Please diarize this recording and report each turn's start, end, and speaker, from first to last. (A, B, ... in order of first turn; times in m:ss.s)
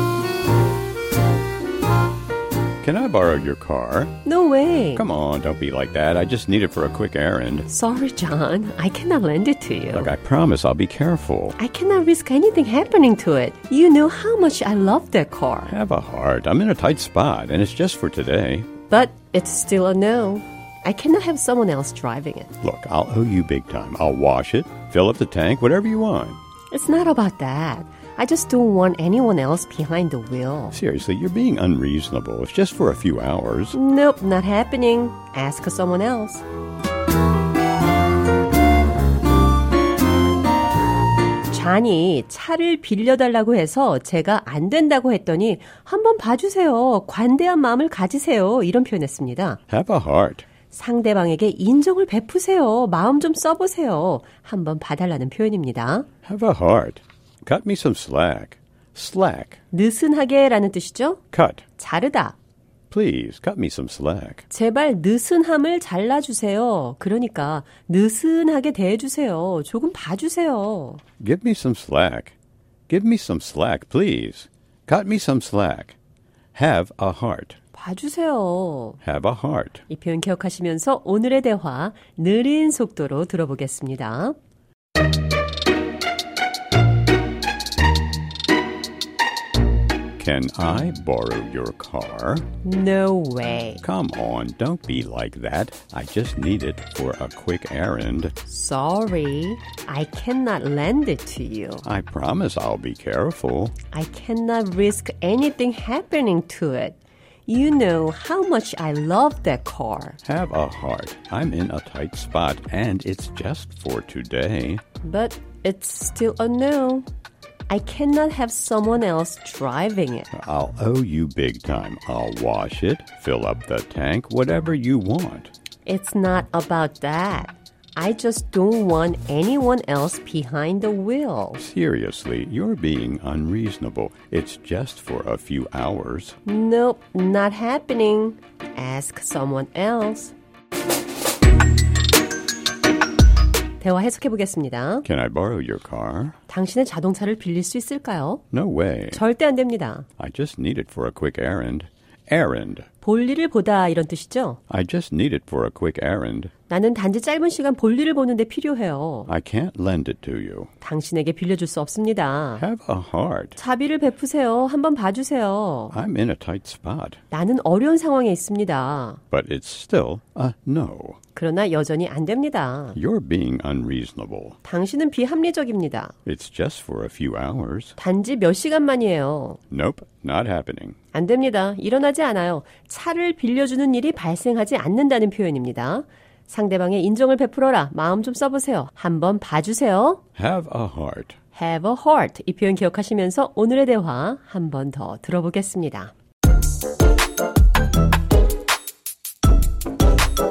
0:02.8-0:04.2 A
0:04.2-0:05.0 B
0:05.0-0:07.7 A
0:07.7-0:10.1 B
0:09.9-0:11.6 A
0:11.6-0:15.8 B
0:15.7-0:18.7 A
0:18.9-0:22.6 B
0:22.6-0:26.4 A
0:26.7-0:30.8 B
0:30.7-0:33.8 A
0:33.7-0:36.4 B
0:41.5-0:49.6 B
0:49.7-0:50.5 A
0:50.7-0:56.1 B
0:56.3-0:59.6 A
0:59.7-1:01.2 B
1:01.3-1:01.6 A
1:01.8-1:02.4 B
1:02.9-1:04.4 A
1:04.5-1:11.0 B
1:11.2-1:12.4 A
1:12.9-1:16.0 A
1:16.5-1:17.6 A
1:17.7-1:19.0 B
1:19.0-1:19.8 A
1:19.9-1:24.4 B
1:30.2-1:32.5 A
1:32.6-1:33.8 B
1:33.8-1:38.4 A
1:38.4-1:41.9 B
1:41.8-1:43.8 A
1:43.9-1:50.2 B
1:50.2-1:54.8 A
1:55.0-1:57.1 B
1:57.7-2:00.3 B
2:00.3-2:05.5 A
2:05.9-2:11.6 B
2:11.6-2:16.4 A
2:16.5-2:20.3 B
2:23.8-2:25.1 B
2:25.0-2:26.4 A
2:26.5-2:28.4 B
2:28.5-2:29.2 A
2:29.1-2:30.1 B
2:30.2-2:32.9 A
2:33.0-2:34.6 B
2:34.7-2:36.5 A
2:36.7-2:39.3 B
2:39.3-2:40.7 A
2:40.8-2:42.6 B
2:42.6-2:43.6 A
2:43.6-2:46.0 B
2:45.9-2:47.2 A
2:47.3-2:49.2 B
2:49.3-2:51.2 A
2:51.4-2:53.0 B
2:53.0-2:54.6 A
2:54.6-2:56.2 B
2:56.3-2:58.0 A
2:58.0-2:59.6 B
2:59.7-3:01.0 A
3:01.1-3:10.2 B
3:10.4-3:11.4 A
3:11.6-3:16.1 B